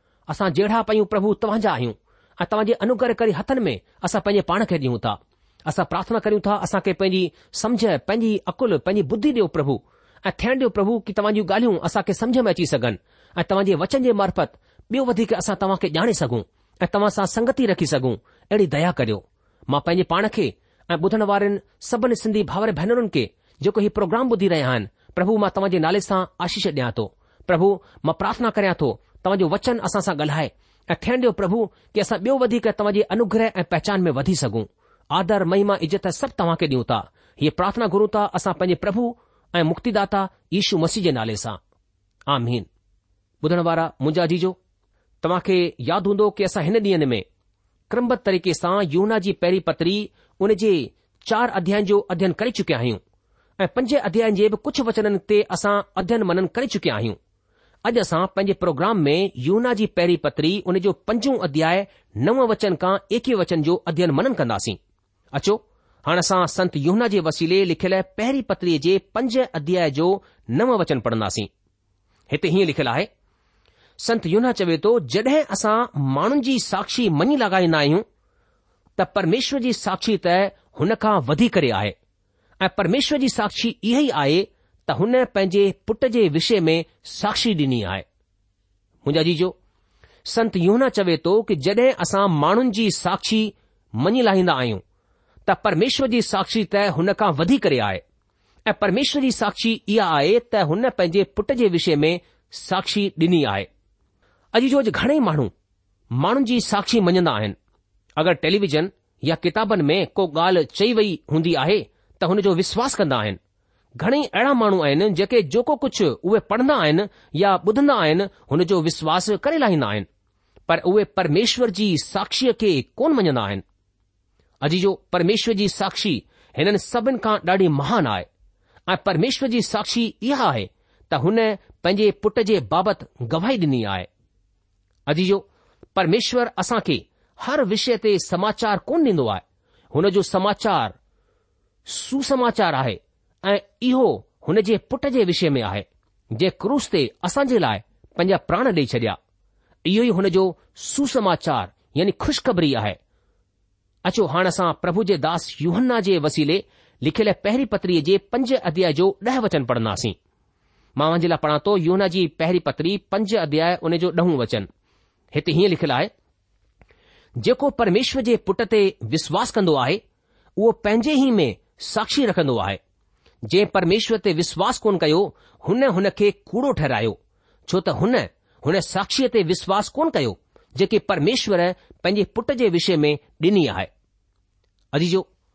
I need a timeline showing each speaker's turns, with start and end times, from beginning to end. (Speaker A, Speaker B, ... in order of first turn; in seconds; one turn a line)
Speaker A: 0.3-41.6
Speaker A: 42.3-42.7
Speaker A: 43.4-44.6
Speaker A: 45.2-47.2
Speaker A: 47.9-53.0
Speaker A: 53.6-57.2
Speaker A: 57.9-64.8
Speaker A: 65.3-71.5
Speaker A: 72.3-73.1
Speaker A: 74.0-78.0
Speaker A: 79.0-82.0
Speaker A: 82.6-88.0
Speaker A: 89.0-89.6
Speaker A: 90.2-94.8
Speaker A: 95.5-98.0
Speaker A: 98.7-103.7
Speaker A: 104.5-105.5
Speaker A: 106.1-107.6
Speaker A: 108.2-113.4
Speaker A: 114.0-120.1
Speaker A: 120.7-123.6
Speaker A: 124.6-128.3
Speaker A: 128.9-134.1
Speaker A: 135.1-140.9
Speaker A: 141.9-149.2
Speaker A: 149.9-153.0
Speaker A: 154.1-160.2
Speaker A: 161.0-164.7
Speaker A: 165.3-166.1
Speaker A: 167.4-170.0
Speaker A: 170.6-172.8
Speaker A: 173.4-183.9
Speaker A: 184.9-185.3